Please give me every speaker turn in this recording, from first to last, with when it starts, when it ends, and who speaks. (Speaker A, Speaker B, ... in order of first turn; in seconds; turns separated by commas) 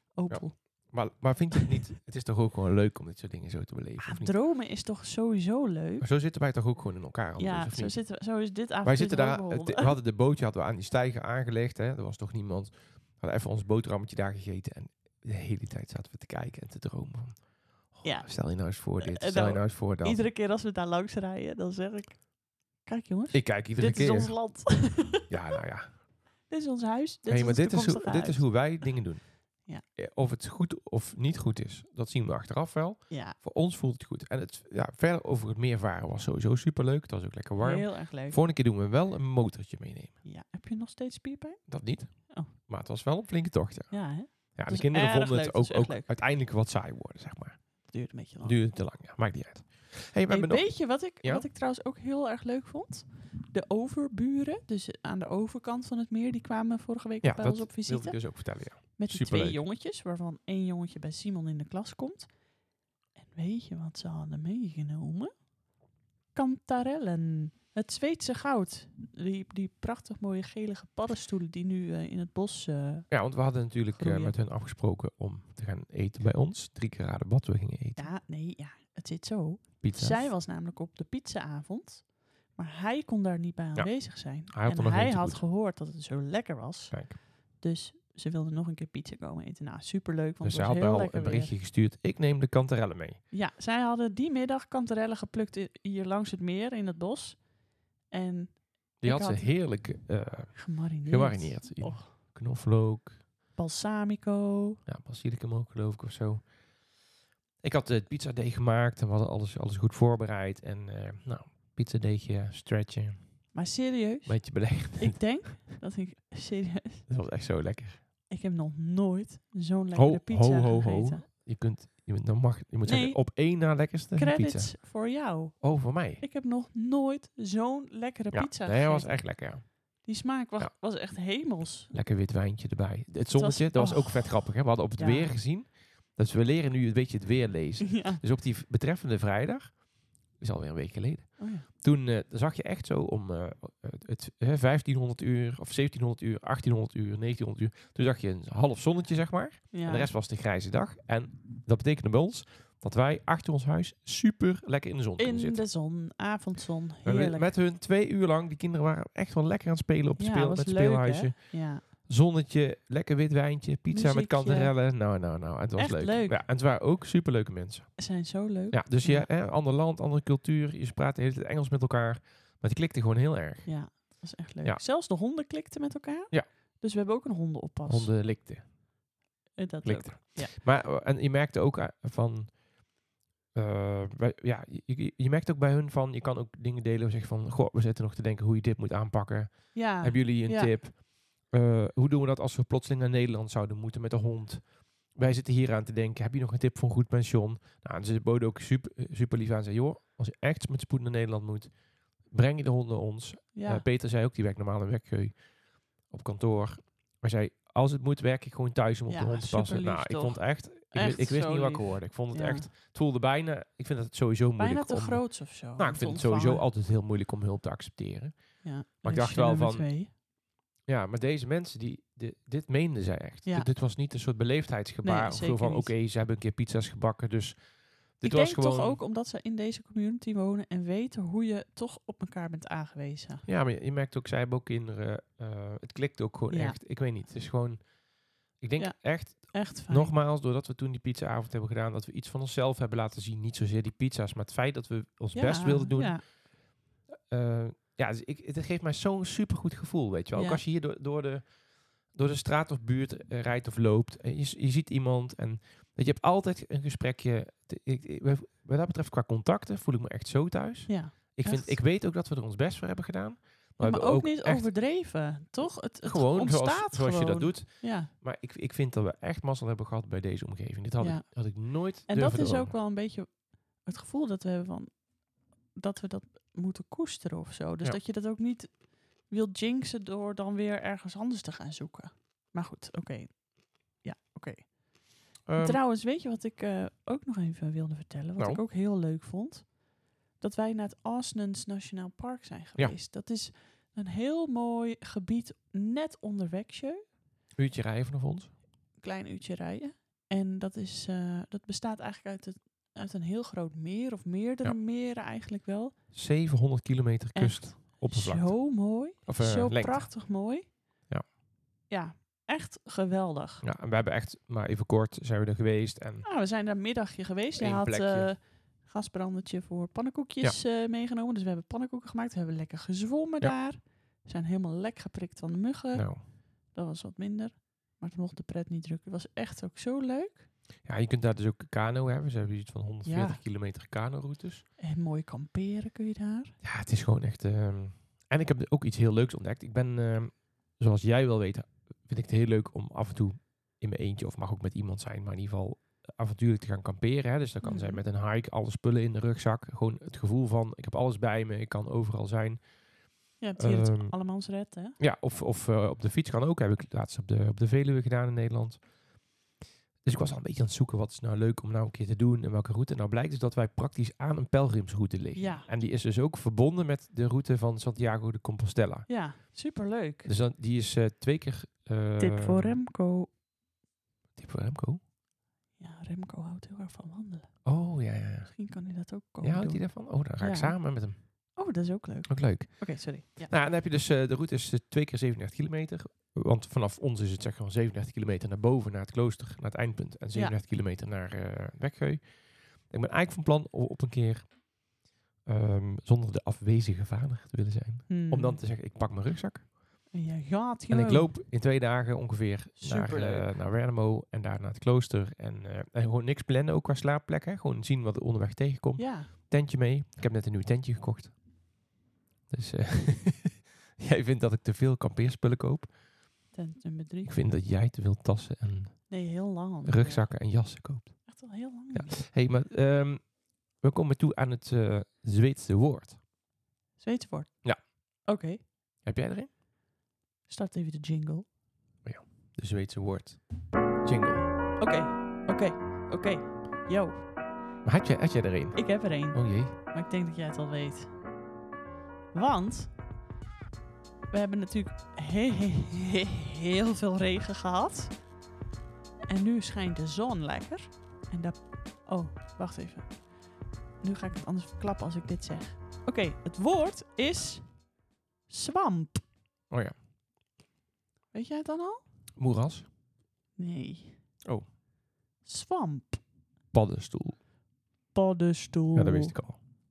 Speaker A: 0.1-0.9, Speaker B: 0.3-4.3, Speaker A: 4.0-6.1, Speaker B: 6.0-8.0, Speaker A: 7.4-9.9, Speaker B: 8.8-20.2, Speaker A: 18.0-22.2, Speaker A: 22.8-25.3, Speaker B: 23.3-26.0, Speaker A: 26.5-28.8, Speaker B: 27.3-40.1, Speaker A: 33.1-33.4, Speaker A: 37.6-38.4, Speaker A: 40.2-41.6, Speaker B: 41.7-47.7, Speaker A: 43.9-46.1, Speaker A: 47.9-48.5, Speaker B: 48.4-51.5, Speaker A: 50.3-58.3, Speaker B: 57.2-59.6, Speaker A: 59.0-62.3, Speaker A: 63.2-65.3, Speaker A: 66.3-73.1, Speaker B: 73.1-78.1, Speaker A: 73.9-74.3, Speaker A: 78.0-91.5, Speaker B: 79.8-80.3, Speaker B: 83.7-85.4, Speaker B: 86.9-87.2, Speaker B: 90.4-93.2, Speaker A: 93.3-97.5, Speaker A: 98.1-99.5, Speaker B: 99.0-103.2, Speaker A: 100.5-102.1, Speaker A: 103.5-104.8, Speaker B: 104.8-106.5, Speaker B: 107.6-113.2, Speaker A: 113.5-117.1, Speaker B: 114.2-115.5, Speaker B: 117.1-118.0, Speaker A: 118.3-121.2, Speaker B: 120.0-124.8, Speaker A: 122.8-123.2, Speaker A: 124.1-129.2, Speaker B: 125.6-126.2, Speaker B: 128.3-129.7, Speaker A: 130.0-131.9, Speaker B: 131.9-139.8, Speaker A: 133.3-135.3, Speaker A: 137.8-138.2, Speaker B: 140.4-155.6, Speaker A: 141.4-141.7, Speaker A: 149.7-150.1, Speaker A: 155.2-157.5, Speaker B: 157.0-168.0, Speaker A: 160.2-161.8, Speaker A: 163.9-164.7, Speaker A: 165.8-166.4, Speaker A: 168.0-169.3, Speaker B: 168.7-173.7, Speaker A: 173.6-178.1, Speaker B: 177.8-178.7, Speaker A: 179.6-180.5, Speaker B: 179.8-182.5, Speaker B: 183.5-201.7, Speaker A: 189.7-190.7, Speaker B: 202.3-205.4, Speaker A: 203.5-203.8, Speaker B: 206.1-219.9, Speaker A: 209.1-212.7, Speaker A: 214.6-216.6, Speaker A: 218.6-220.1, Speaker B: 220.9-227.6, Speaker A: 225.0-225.9, Speaker B: 228.2-229.0, Speaker A: 228.2-233.4, Speaker B: 233.4-237.8, Speaker A: 236.5-236.8, Speaker B: 238.6-246.2, Speaker A: 238.8-240.1, Speaker A: 245.3-246.2, Speaker B: 247.3-251.5, Speaker A: 250.3-250.6, Speaker B: 252.1-264.7, Speaker A: 260.9-261.8, Speaker A: 263.8-268.1, Speaker B: 265.6-272.7, Speaker A: 271.0-275.0, Speaker A: 275.7-284.8, Speaker B: 285.4-285.8, Speaker A: 285.6-289.8, Speaker A: 290.4-297.0, Speaker B: 297.5-298.5, Speaker A: 299.0-305.9, Speaker B: 306.1-310.1, Speaker A: 307.3-310.7, Speaker A: 311.9-313.6, Speaker B: 313.6-316.3, Speaker A: 316.2-326.1, Speaker B: 317.5-318.3, Speaker B: 325.9-326.2, Speaker A: 326.7-330.4, Speaker B: 330.8-334.6, Speaker A: 333.0-333.4, Speaker A: 334.8-336.5, Speaker B: 336.6-352.6, Speaker A: 347.6-348.0, Speaker A: 353.4-355.0, Speaker B: 353.6-354.1, Speaker B: 355.0-358.8, Speaker B: 360.0-369.1, Speaker A: 365.4-365.7, Speaker A: 369.1-370.3, Speaker B: 370.2-372.8, Speaker A: 372.2-373.3, Speaker B: 374.4-375.0, Speaker A: 375.8-377.6, Speaker B: 377.6-378.5, Speaker A: 378.5-383.5, Speaker B: 379.4-381.1, Speaker B: 382.3-392.2, Speaker B: 392.9-394.5, Speaker B: 395.4-399.7, Speaker A: 398.1-398.6, Speaker A: 400.1-401.3, Speaker B: 400.9-411.3, Speaker A: 402.8-403.5, Speaker A: 409.0-409.3, Speaker B: 412.5-415.9, Speaker A: 416.5-417.3, Speaker B: 417.2-419.1, Speaker A: 419.1-420.3, Speaker B: 419.8-421.3, Speaker A: 421.2-422.2, Speaker B: 421.9-426.2, Speaker A: 427.0-427.6, Speaker A: 428.3-428.6, Speaker B: 429.0-429.5, Speaker A: 430.5-431.5, Speaker B: 432.0-433.4, Speaker B: 434.0-434.5, Speaker A: 434.8-437.2, Speaker B: 437.8-439.8, Speaker A: 438.7-441.1, Speaker A: 442.3-442.9, Speaker A: 444.3-448.2, Speaker A: 449.3-453.2, Speaker A: 454.0-457.7, Speaker A: 458.5-459.2, Speaker B: 459.7-459.9, Speaker A: 461.3-462.0, Speaker B: 462.4-462.9, Speaker A: 463.6-464.2, Speaker A: 465.4-466.2, Speaker B: 466.7-467.4, Speaker A: 468.1-469.3, Speaker B: 468.9-469.6